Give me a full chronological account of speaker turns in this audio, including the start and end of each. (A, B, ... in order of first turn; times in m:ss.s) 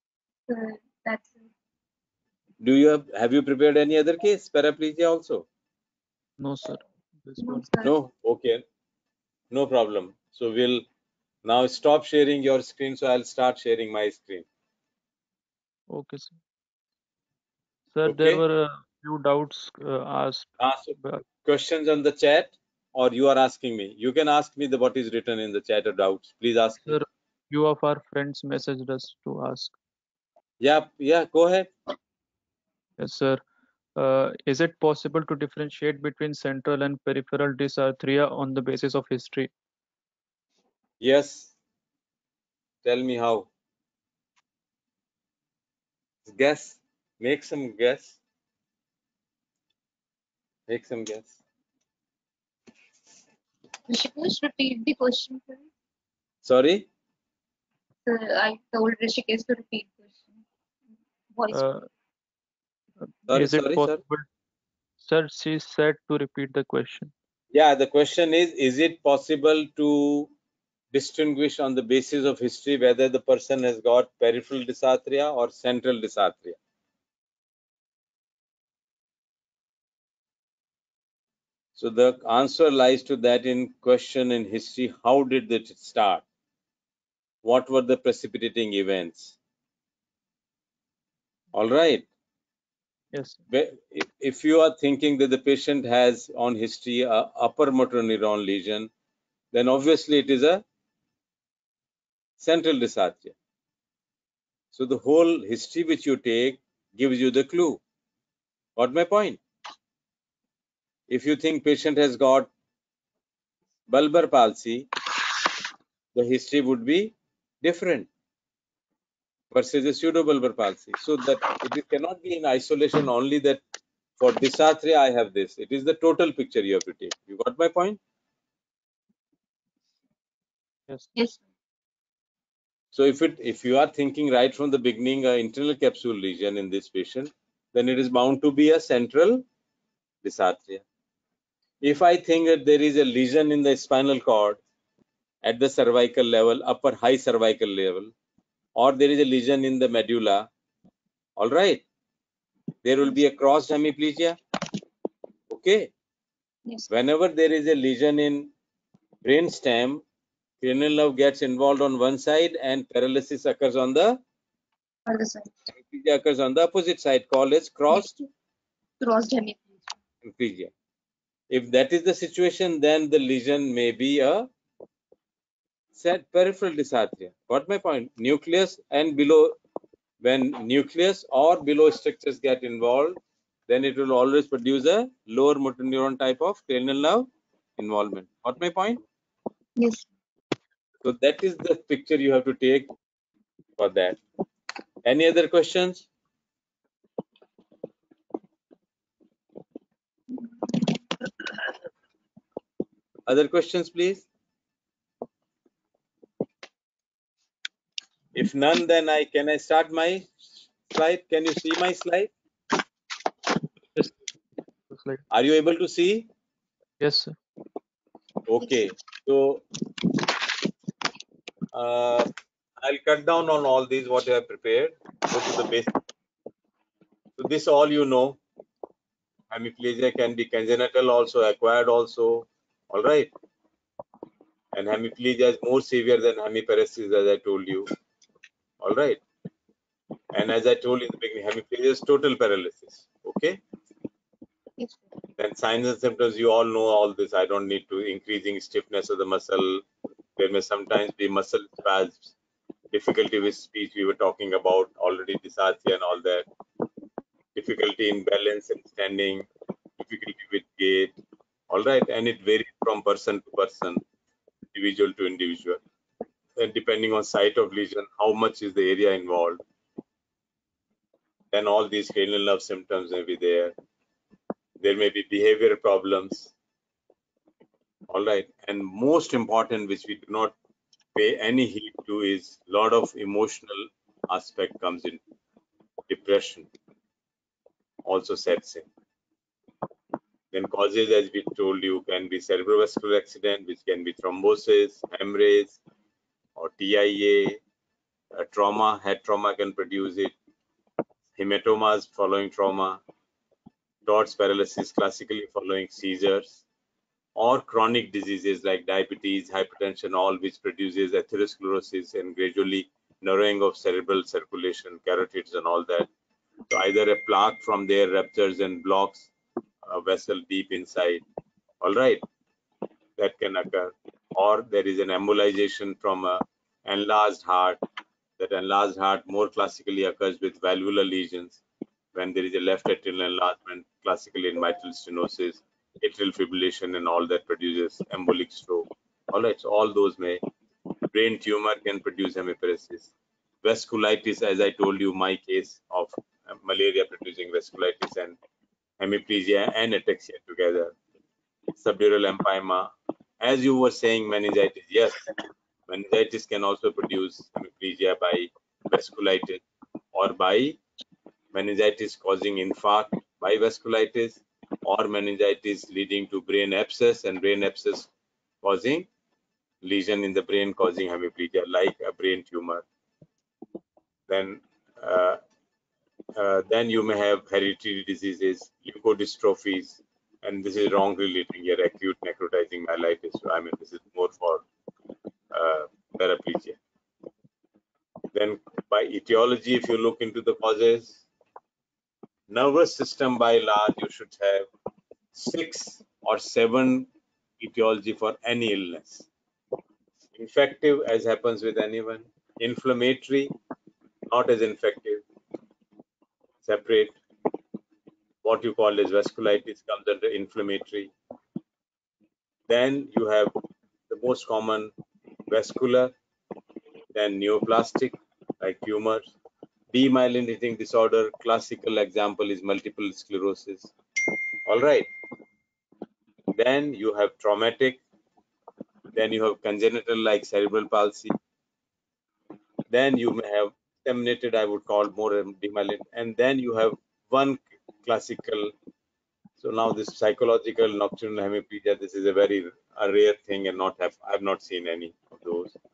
0:00.5-0:01.5 A
0:02.6-0:05.5 B
0:06.4-0:07.7 C
0:07.4-0:08.0 A
0:07.8-0:08.6 B
0:09.5-0:10.9 B
0:11.4-0:14.5 B
0:15.9-0:16.4 C
0:17.9-0:20.5 C
0:18.0-0:18.4 B
0:20.6-0:27.0 B
0:26.9-0:29.7 C
0:30.6-0:31.7 B
0:33.0-0:33.4 C
0:34.0-0:39.5 C
0:41.0-0:41.5 B
0:42.8-0:43.5 B
0:46.3-0:48.2 B
0:50.7-0:51.4 B
0:53.9-0:55.6 A
0:56.4-0:56.9 B
0:58.1-1:00.3 A
1:01.4-1:01.6 A
1:01.5-1:01.8 C
1:03.3-1:04.0 B
1:03.3-1:04.3 C
1:05.0-1:07.1 C
1:07.5-1:10.3 B
1:10.9-1:16.6 B
1:21.8-1:26.2 B
1:27.4-1:29.4 B
1:31.5-1:32.1 B
1:33.1-1:33.4 C
1:33.5-1:38.9 B
1:39.5-1:40.6 B
1:42.4-1:43.4 B
1:44.7-1:47.8 B
1:48.8-1:49.4 B
1:51.1-1:52.5 B
1:53.9-1:54.9 B
1:56.2-1:58.1 B
1:59.5-2:03.6 B
2:04.2-2:08.0 B
2:11.2-2:11.4 A
2:12.9-2:19.4 B
2:20.2-2:20.8 B
2:21.8-2:24.6 B
2:25.4-2:28.1 B
2:28.8-2:30.5 B
2:31.4-2:31.8 B
2:32.8-2:34.4 B
2:35.5-2:35.9 B
2:36.9-2:38.5 B
2:39.2-2:40.0 B
2:40.6-2:44.2 B
2:45.1-2:45.5 A
2:45.8-2:48.1 B
2:47.9-2:48.3 A
2:49.0-2:49.8 A
2:50.2-2:50.7 B
2:51.5-2:54.5 B
2:55.9-2:59.6 B
3:00.2-3:09.0 B
3:09.8-3:10.1 A
3:11.0-3:12.9 B
3:13.8-3:14.2 B
3:15.0-3:16.1 B
3:23.3-3:24.3 B
3:28.3-3:32.3 B
3:34.9-3:35.2 C
3:35.3-3:36.3 B
3:37.0-3:37.4 C
3:38.4-3:39.7 B
3:41.7-3:42.3 B
3:42.8-3:45.9 B
3:47.4-3:48.4 B
3:49.5-3:53.3 B
3:54.7-3:57.9 B
3:58.8-3:59.2 B
4:00.3-4:03.6 B
4:05.4-4:09.8 B
4:10.4-4:12.3 B
4:12.9-4:16.5 B
4:17.6-4:21.2 B
4:21.7-4:24.0 B
4:24.7-4:25.8 B
4:26.6-4:29.6 B
4:31.5-4:33.7 B
4:34.8-4:36.5 B
4:38.1-4:40.6 B
4:41.2-4:45.2 B
4:46.1-4:46.7 B
4:48.0-4:48.9 B
4:50.5-4:55.8 B
4:56.6-4:57.6 B
4:58.3-5:00.3 B
5:01.4-5:03.0 B
5:04.0-5:06.6 B
5:07.4-5:16.1 B
5:16.7-5:19.3 B
5:19.8-5:21.2 B
5:21.8-5:22.2 B
5:23.2-5:27.8 B
5:28.4-5:31.6 B
5:32.1-5:40.4 B
5:41.1-5:43.1 B
5:43.6-5:48.4 B
5:49.0-5:51.0 B
5:51.7-5:55.2 B
5:55.9-5:59.6 B
6:00.1-6:00.8 B
6:01.5-6:08.1 B
6:08.6-6:09.1 B
6:09.8-6:12.8 B
6:14.3-6:15.4 B
6:16.4-6:24.6 B
6:25.5-6:26.8 B
6:28.3-6:31.2 B
6:32.5-6:34.7 B
6:35.3-6:39.3 B
6:40.3-6:43.5 B
6:44.3-6:45.2 B
6:46.6-6:47.2 B
6:48.4-6:51.1 B
6:52.7-6:53.5 B
6:54.1-6:54.9 B
6:55.5-6:56.1 B
6:57.2-6:59.3 B
6:59.9-7:03.9 B
7:04.7-7:05.1 B
7:06.5-7:08.0 B
7:09.2-7:11.4 B
7:12.9-7:18.7 B
7:19.6-7:25.8 B